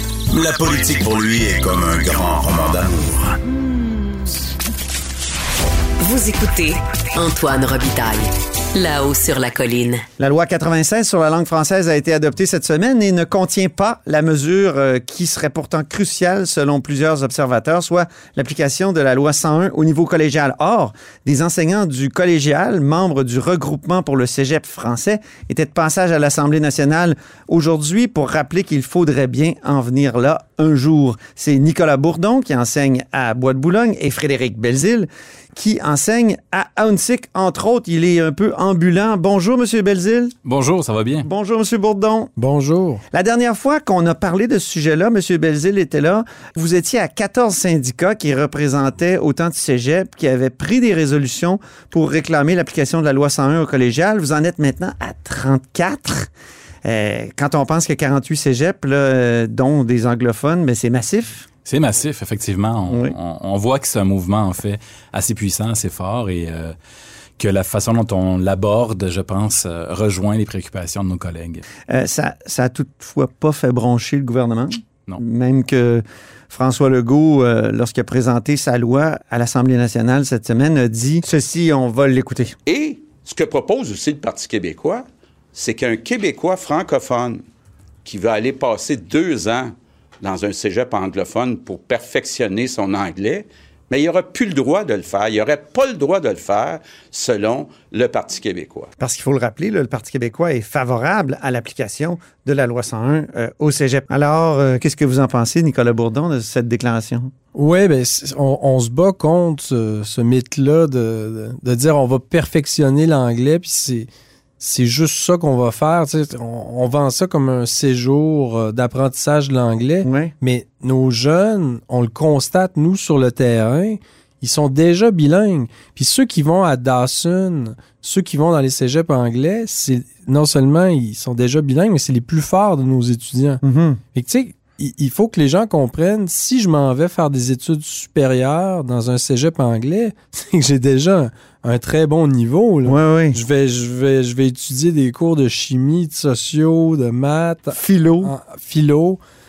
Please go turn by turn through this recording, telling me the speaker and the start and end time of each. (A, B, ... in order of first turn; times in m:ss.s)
0:00.3-0:03.2 A
0:06.0-0:10.0 B
0:10.2-0:40.4 C
0:40.4-0:41.3 D
0:41.2-0:42.3 C
0:42.4-0:43.0 E
0:43.1-0:56.3 C
0:56.8-1:01.5 C
1:01.6-1:06.7 D
1:02.9-1:03.2 C
1:07.4-1:11.6 D
1:11.9-1:22.6 C
1:22.7-1:27.4 F
1:28.0-1:38.9 F
1:39.0-1:47.3 C
1:47.5-1:54.1 E
1:54.6-2:13.6 E
2:00.0-2:00.3 C
2:13.6-2:14.0 C
2:14.1-2:29.2 E
2:22.8-2:23.4 C
2:27.7-2:28.3 C